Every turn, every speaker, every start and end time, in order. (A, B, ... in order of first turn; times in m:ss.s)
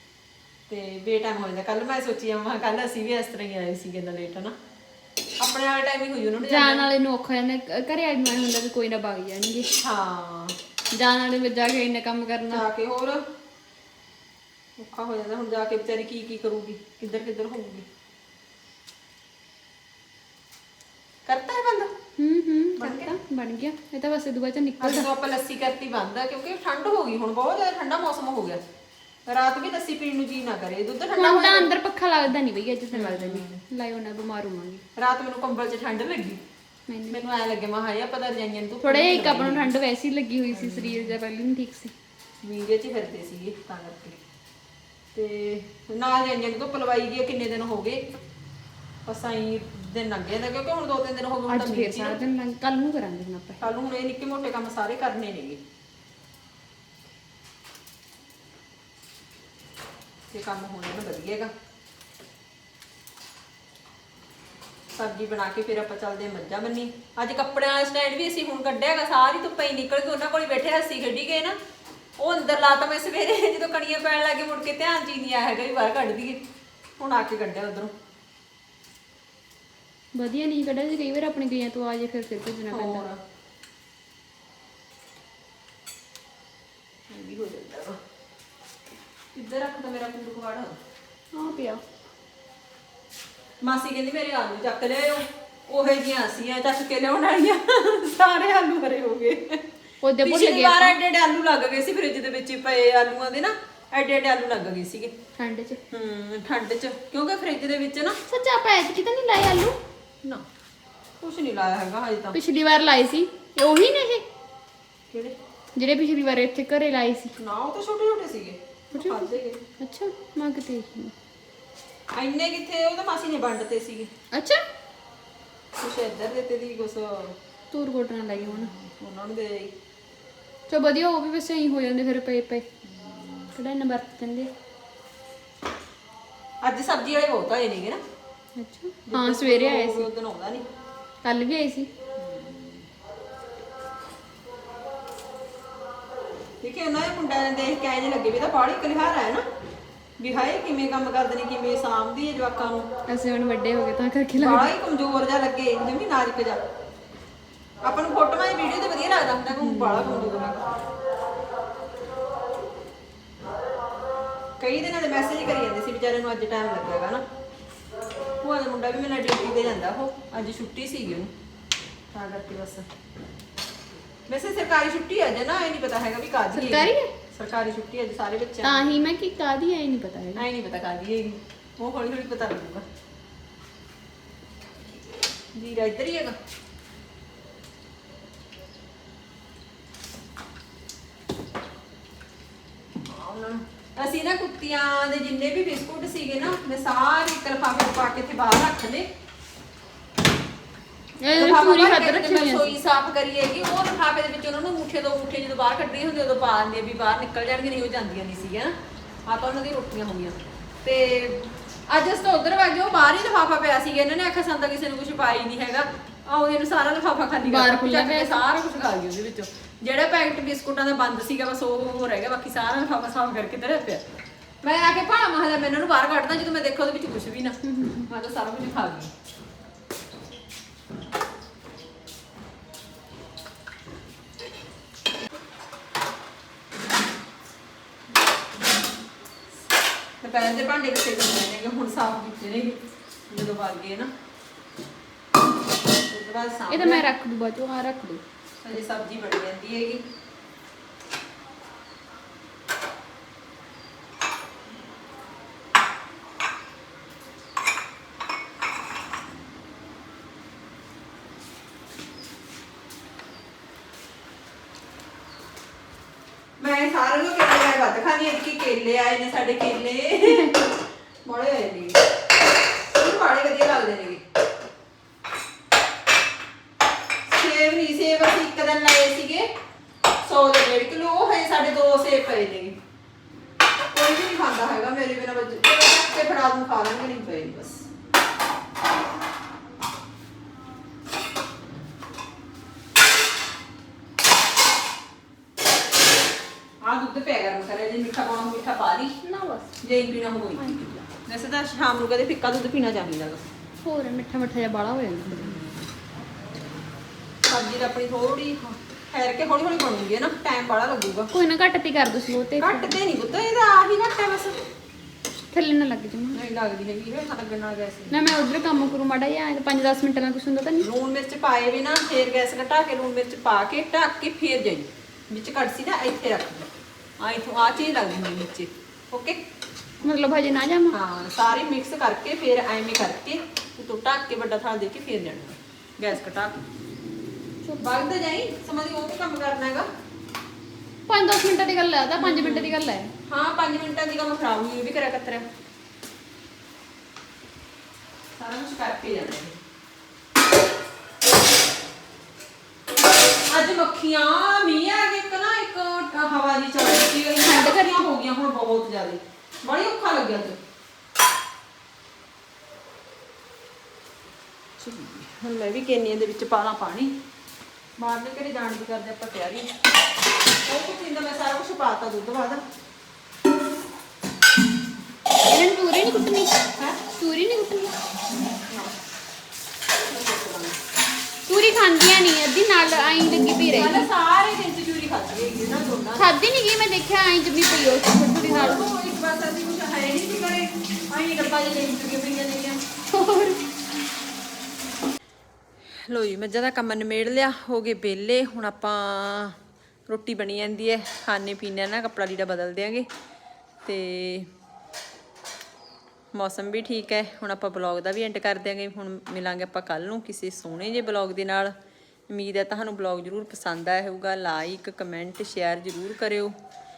0:00.7-0:04.6 A
0:05.4-0:06.9 A
0:06.4-0:09.7 B
0:09.8-0:10.6 A
0:10.9-0:12.6 B
0:12.5-0:13.2 A
0:14.8-0:17.9 A
0:21.3-0:21.9 A
0:22.2-0:25.1 B
0:22.8-0:23.1 A
0:24.8-0:28.6 A
0:29.3-0:31.7 A
0:31.1-0:34.8 B
0:32.9-0:33.6 A
0:35.0-0:36.4 A
0:36.9-0:37.2 B
0:37.1-0:39.7 A
0:38.8-0:41.9 B
0:40.5-0:41.2 A
0:42.4-0:44.2 A
0:45.1-0:48.0 A
0:49.1-0:52.2 A
0:51.5-0:53.6 B
0:53.6-0:55.6 A
1:00.3-1:01.5 A
1:05.0-1:11.6 A
1:12.2-1:16.4 A
1:17.0-1:17.9 A
1:20.2-1:23.1 B
1:22.7-1:23.2 A
1:27.1-1:28.0 A
1:29.4-1:30.8 A
1:31.3-1:31.8 B
1:33.6-1:39.6 A
1:40.0-1:41.0 B
1:40.2-1:45.1 A
1:45.4-1:45.8 B
1:45.9-1:48.2 A
1:48.3-1:49.8 B
1:51.2-1:52.4 A
1:52.3-1:54.2 B
1:55.1-1:55.4 A
1:55.8-1:57.3 B
1:57.4-1:59.7 A
1:58.9-2:01.1 B
2:02.1-2:04.1 A
2:04.3-2:04.6 B
2:05.8-2:07.4 A
2:07.7-2:08.7 B
2:08.3-2:09.7 A
2:10.7-2:12.6 B
2:12.8-2:13.5 A
2:13.6-2:14.5 B
2:16.6-2:18.0 A
2:18.6-2:20.1 B
2:19.1-2:20.6 A
2:21.2-2:21.9 B
2:22.2-2:22.9 A
2:26.6-2:29.4 A
2:30.2-2:32.9 A
2:33.1-2:34.7 B
2:34.4-2:36.6 A
2:37.8-2:40.6 A
2:39.5-2:40.4 B
2:44.6-2:47.2 A
2:48.4-2:51.3 A
2:52.1-2:52.9 A
2:54.3-2:59.0 A
2:56.5-2:57.1 B
2:58.6-3:00.5 B
3:00.4-3:02.8 A
3:05.5-3:06.4 A
3:13.0-3:19.1 A
3:21.2-3:22.8 B
3:21.4-3:28.8 A
3:29.3-3:44.0 A
3:37.4-3:38.4 B
3:44.6-3:49.1 A
3:47.6-3:48.1 B
4:00.2-4:04.1 A
4:06.0-4:07.1 A
4:06.7-4:08.2 B
4:08.6-4:10.0 A
4:26.6-4:30.7 A
4:31.2-4:32.0 A
4:32.9-4:34.2 A
4:37.3-4:39.5 A
4:40.2-4:42.8 A
4:43.9-4:47.9 A
4:56.8-4:59.2 A
4:59.2-4:59.7 B
4:59.8-5:03.4 A
5:00.6-5:00.9 B
5:03.8-5:05.6 B
5:07.5-5:11.3 A
5:11.3-5:13.0 B
5:12.6-5:14.6 A
5:15.5-5:16.4 B
5:16.3-5:18.3 A
5:18.1-5:20.9 B
5:20.8-5:26.7 A
5:27.2-5:29.4 A
5:30.0-5:31.0 B
5:30.9-5:36.6 A
5:37.6-5:38.0 B
5:37.8-5:39.9 A
5:41.1-5:43.1 B
5:42.2-5:42.8 A
5:43.3-5:45.5 A
5:48.4-5:49.6 A
5:53.5-6:00.6 A
5:57.4-5:58.1 B
6:04.8-6:07.2 A
6:08.0-6:09.7 A
6:10.7-6:12.6 A
6:15.5-6:16.6 B
6:16.8-6:17.0 A
6:17.1-6:17.9 B
6:20.1-6:20.8 A
6:21.5-6:24.1 B
6:23.7-6:26.3 A
6:26.2-6:28.8 B
6:28.4-6:32.8 A
6:33.1-6:33.6 B
6:36.1-6:39.6 A
6:40.1-6:43.1 A
6:43.8-6:44.5 A
6:46.3-6:51.8 A
6:52.3-6:56.6 A